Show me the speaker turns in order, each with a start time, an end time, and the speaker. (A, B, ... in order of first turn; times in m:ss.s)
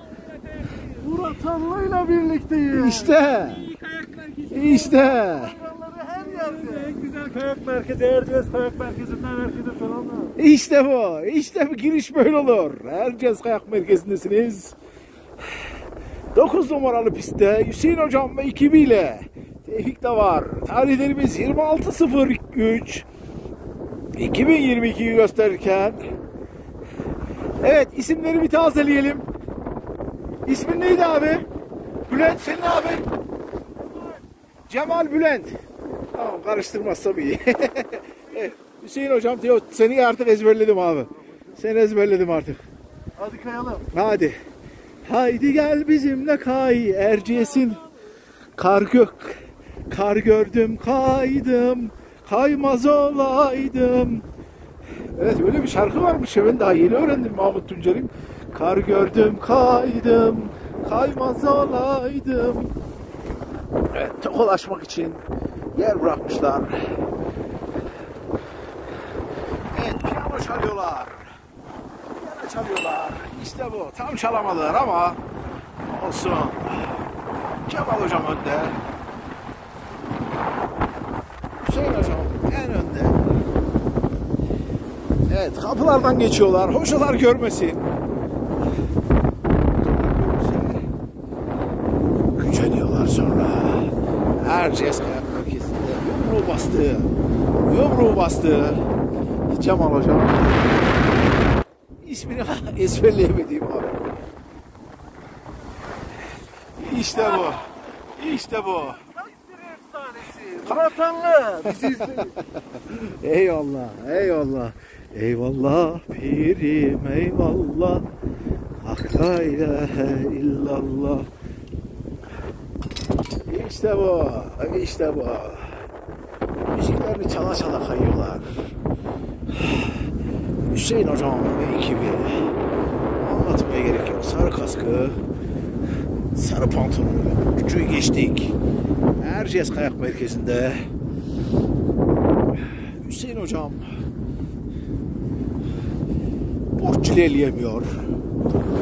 0:00.8-0:03.2 A
0:02.7-0:03.7 B
0:03.7-0:10.3 A
0:04.5-0:05.6 B
0:10.4-0:14.8 B
0:16.3-0:23.1 B
0:24.2-0:26.0 B
0:27.6-0:29.3 B
0:30.4-0:31.5 B
0:32.1-0:33.1 B
0:34.7-0:35.5 B
0:36.1-0:42.6 B
0:43.2-0:43.9 A
0:43.9-0:44.4 B
0:45.0-0:47.8 B
0:48.6-0:54.2 B
0:55.1-1:02.7 B
1:03.9-1:05.2 B
1:05.7-1:06.7 B
1:09.7-1:11.2 B
1:12.1-1:15.2 B
1:15.9-1:16.9 B
1:17.6-1:18.8 B
1:21.6-1:23.2 B
1:25.3-1:27.9 B
1:29.8-1:30.8 B
1:32.3-1:38.8 B
1:39.5-1:40.7 B
1:42.0-1:44.0 B
1:46.8-1:49.0 B
1:49.3-1:52.3 A
1:50.6-1:51.0 B
1:51.6-1:58.1 B
1:58.8-2:01.3 B
2:03.5-2:05.8 B
2:06.7-2:08.7 B
2:09.6-2:09.9 B
2:10.7-2:12.5 B
2:13.2-2:15.2 B
2:16.3-2:18.6 B
2:19.2-2:20.9 B
2:23.0-2:23.8 B
2:26.8-2:28.0 B